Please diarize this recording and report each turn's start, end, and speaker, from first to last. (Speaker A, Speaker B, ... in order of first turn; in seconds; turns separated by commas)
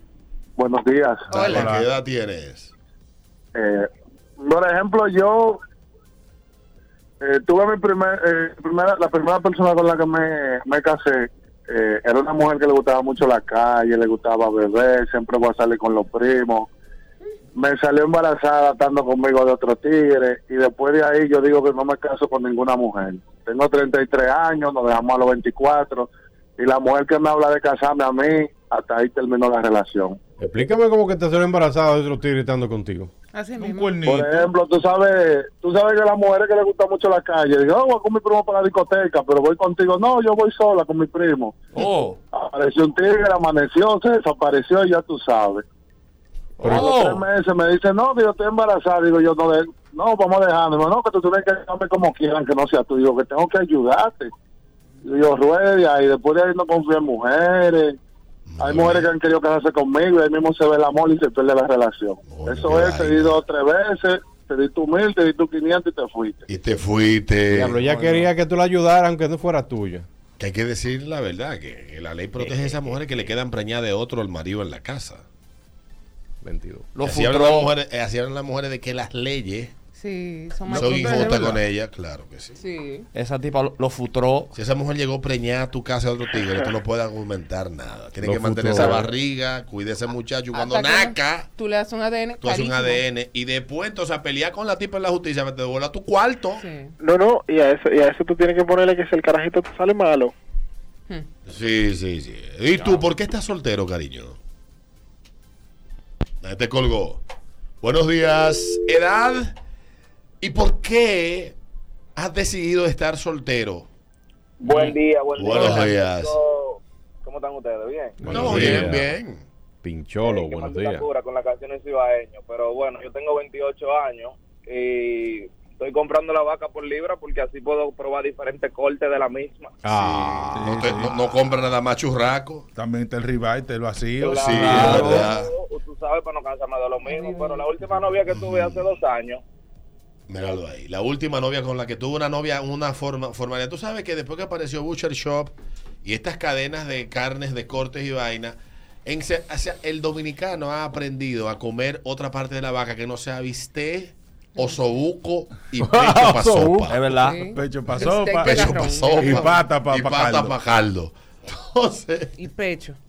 Speaker A: 0.6-1.4, Speaker B: 1.3-2.7, Speaker C: 1.3-1.7, Speaker D: 1.4-1.9, Speaker A: 3.5-5.6, Speaker A: 7.2-16.7, Speaker A: 17.5-30.2, Speaker E: 30.4-33.1, Speaker C: 33.3-34.0, Speaker D: 33.6-34.5, Speaker A: 34.0-41.6, Speaker F: 41.7-42.2, Speaker A: 42.3-45.6, Speaker F: 46.6-47.2, Speaker A: 46.6-54.3, Speaker A: 55.0-58.0, Speaker B: 58.5-59.1, Speaker A: 58.6-66.4, Speaker B: 62.2-63.4, Speaker B: 66.5-67.8, Speaker E: 67.5-70.0, Speaker F: 67.8-68.3, Speaker B: 70.4-75.2, Speaker F: 72.4-72.7, Speaker E: 76.4-76.9, Speaker F: 76.9-77.7, Speaker B: 77.0-79.7, Speaker C: 79.9-81.5, Speaker D: 80.7-81.6, Speaker B: 80.7-82.6, Speaker C: 82.6-83.1, Speaker F: 83.1-84.5, Speaker B: 84.5-91.5, Speaker E: 88.2-89.1, Speaker C: 90.5-93.0, Speaker B: 92.4-96.6, Speaker C: 96.6-96.9, Speaker G: 97.0-100.3, Speaker B: 101.5-104.4, Speaker B: 106.4-107.2, Speaker B: 107.8-109.5, Speaker B: 110.4-111.5, Speaker B: 112.2-113.9, Speaker H: 114.7-116.2, Speaker B: 115.3-116.4, Speaker E: 118.2-119.1, Speaker B: 118.2-119.4, Speaker E: 119.8-121.1, Speaker H: 120.5-120.9, Speaker H: 121.6-123.2, Speaker H: 123.7-124.9, Speaker E: 129.8-130.7, Speaker B: 129.8-132.7, Speaker D: 130.5-131.3, Speaker D: 132.7-135.3, Speaker B: 134.4-135.5, Speaker F: 134.5-135.3, Speaker H: 135.5-139.3, Speaker C: 137.0-137.7, Speaker B: 138.3-138.9, Speaker B: 140.3-157.1, Speaker E: 155.8-156.9, Speaker F: 156.9-157.4, Speaker C: 157.1-159.5, Speaker D: 157.4-160.6, Speaker B: 158.4-162.3, Speaker C: 162.4-163.0